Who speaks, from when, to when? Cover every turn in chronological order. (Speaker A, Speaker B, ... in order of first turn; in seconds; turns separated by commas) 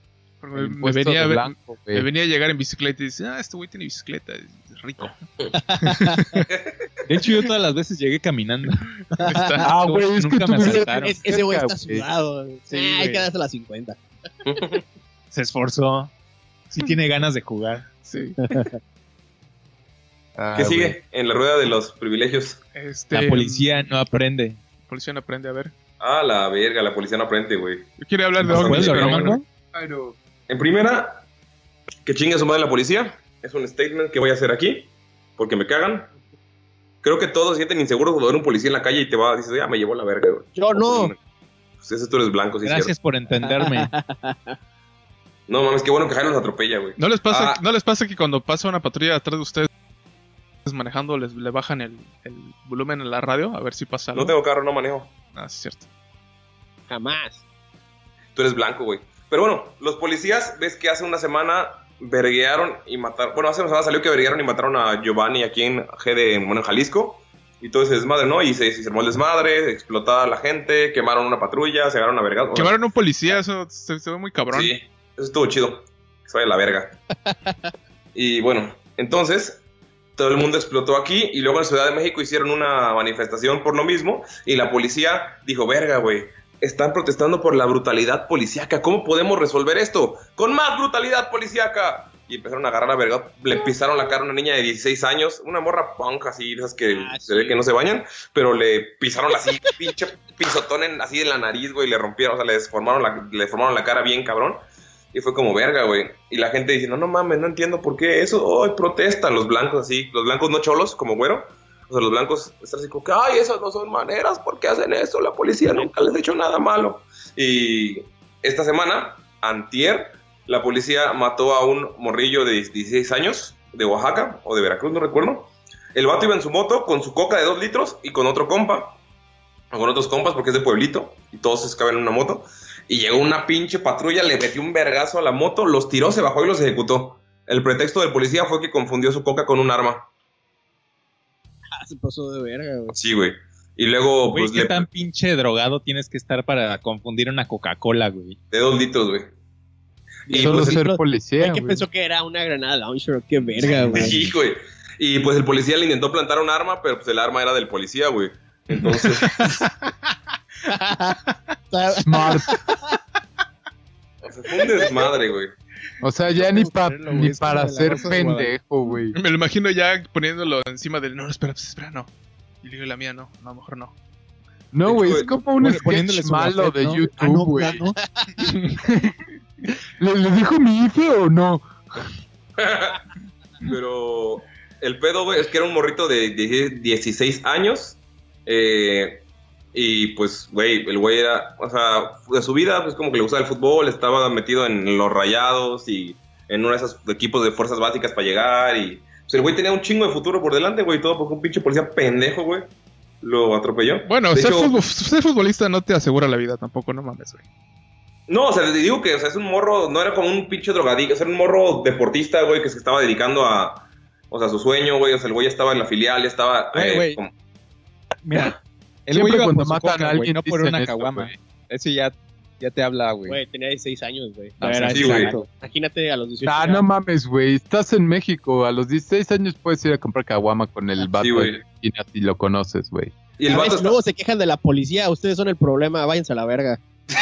Speaker A: 0.4-5.3, Speaker B: 0.6-2.1, Speaker C: 5.5-6.4, Speaker A: 5.8-6.4, Speaker D: 6.5-6.9, Speaker E: 7.1-8.9, Speaker A: 9.2-9.7, Speaker C: 9.2-9.5, Speaker E: 9.6-11.2, Speaker B: 9.6-12.1, Speaker C: 10.6-14.0, Speaker E: 12.7-13.3, Speaker D: 14.4-14.8, Speaker E: 15.3-16.1, Speaker E: 16.7-17.9, Speaker A: 18.0-18.6, Speaker C: 18.5-18.7, Speaker B: 20.4-21.0, Speaker D: 20.6-22.6, Speaker A: 22.7-23.9, Speaker E: 23.1-24.6, Speaker A: 24.8-25.7, Speaker D: 26.0-27.9, Speaker A: 28.0-29.4, Speaker E: 28.4-29.4, Speaker D: 28.5-29.4, Speaker B: 29.7-30.2, Speaker D: 30.5-31.3, Speaker D: 32.1-36.1, Speaker D: 37.0-41.2, Speaker C: 40.5-41.1, Speaker D: 41.8-42.9, Speaker E: 42.6-43.9, Speaker C: 43.4-44.6, Speaker D: 45.5-47.6, Speaker A: 47.0-49.7, Speaker A: 50.6-54.4, Speaker D: 54.1-55.1, Speaker A: 55.3-55.9, Speaker C: 56.9-57.4, Speaker D: 58.4-73.4, Speaker A: 72.5-74.7, Speaker D: 74.5-77.0, Speaker C: 77.3-77.5, Speaker D: 78.2-79.6, Speaker D: 80.2-104.6, Speaker C: 96.9-97.6, Speaker D: 105.1-129.0, Speaker D: 129.7-140.1, Speaker C: 141.7-142.9, Speaker D: 142.9-144.9, Speaker E: 144.3-148.4, Speaker D: 148.5-149.3, Speaker D: 150.3-150.8, Speaker C: 150.3-154.2, Speaker B: 150.3-151.9, Speaker D: 153.8-159.4, Speaker C: 160.7-161.2, Speaker C: 161.7-162.8, Speaker B: 162.0-162.6, Speaker D: 164.2-165.5, Speaker B: 166.0-169.2, Speaker C: 166.3-168.5, Speaker E: 167.2-168.4, Speaker A: 169.1-172.1, Speaker A: 172.6-173.9, Speaker B: 174.7-177.8, Speaker D: 174.9-175.4, Speaker E: 175.6-178.0, Speaker C: 177.6-178.4, Speaker B: 178.8-179.1, Speaker B: 180.0-182.1, Speaker D: 182.6-183.0, Speaker D: 183.6-202.7, Speaker D: 203.2-204.7, Speaker A: 204.1-207.4, Speaker D: 208.3-217.3, Speaker E: 216.7-217.2, Speaker E: 218.2-223.4, Speaker B: 219.1-221.4, Speaker C: 223.3-226.8, Speaker E: 224.6-225.5, Speaker D: 224.9-225.3, Speaker B: 226.4-233.2, Speaker D: 231.1-231.6, Speaker D: 233.4-234.0, Speaker C: 233.5-236.8